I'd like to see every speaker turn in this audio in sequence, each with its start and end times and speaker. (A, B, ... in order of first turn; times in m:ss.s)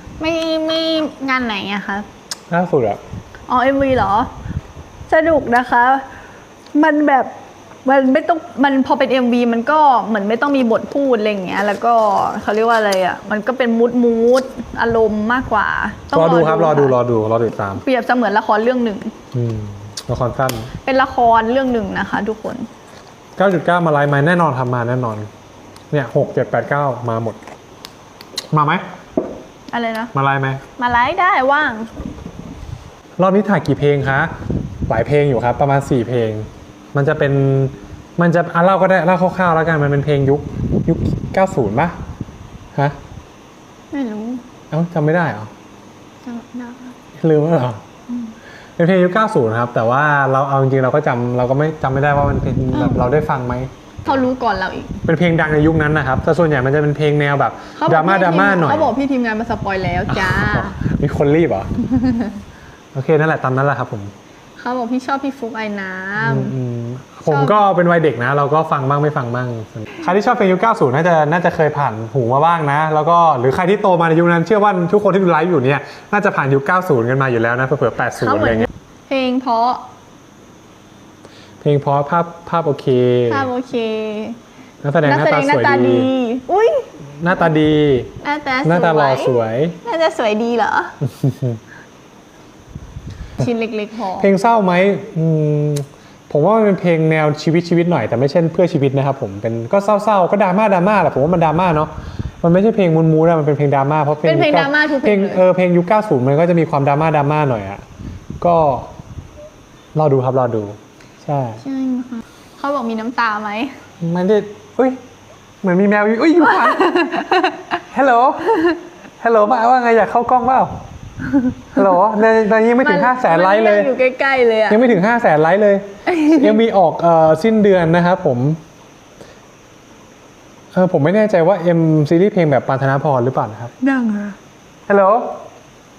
0:00.2-0:02.1 A
0:02.5-0:03.0 B
0:03.5-0:04.3 A
0:05.1-0:06.0 A
0:06.7-0:07.3 A
0:07.8-0:17.0 A
0:16.1-0:17.8 B
0:17.8-0:19.1 A
0:19.3-0:20.7 B
0:20.8-0:22.6 A
0:23.4-0:25.3 B
0:25.9-0:27.4 B
0:28.5-0:28.8 B
0:29.7-0:30.1 A
0:30.1-0:30.6 B
0:30.8-0:31.9 A
0:33.2-0:34.3 B
0:34.9-0:42.0 B
0:43.9-0:44.4 A
0:44.7-0:45.5 B
0:46.2-0:46.9 A
0:47.2-0:47.8 B
0:48.8-0:54.2 B
0:52.7-0:53.0 A
0:54.0-0:55.0 A
0:55.0-0:58.9 B
0:57.8-1:00.8 A
1:00.1-1:01.7 B
1:02.0-1:02.3 A
1:02.9-1:04.1 B
1:04.6-1:06.6 A
1:06.2-1:18.7 B
1:07.2-1:07.6 A
1:18.1-1:19.8 A
1:21.6-1:23.5 B
1:23.3-1:24.4 A
1:24.8-1:26.1 B
1:25.0-1:26.9 A
1:27.2-1:28.1 B
1:28.2-1:30.9 A
1:28.6-1:29.8 B
1:31.0-1:31.6 B
1:33.4-1:34.3 A
1:34.2-1:41.9 B
1:42.4-1:47.8 B
1:44.2-1:45.4 A
1:48.4-1:48.9 B
1:49.9-1:51.6 B
1:51.6-1:53.7 A
1:54.0-1:55.0 B
1:55.6-1:57.0 B
1:56.5-1:57.7 A
1:57.9-1:58.7 B
1:59.2-2:00.8 B
2:01.7-2:03.9 B
2:02.8-2:04.9 A
2:04.7-2:08.6 B
2:06.1-2:06.5 A
2:10.7-2:13.7 B
2:13.8-2:14.4 A
2:14.9-2:15.4 B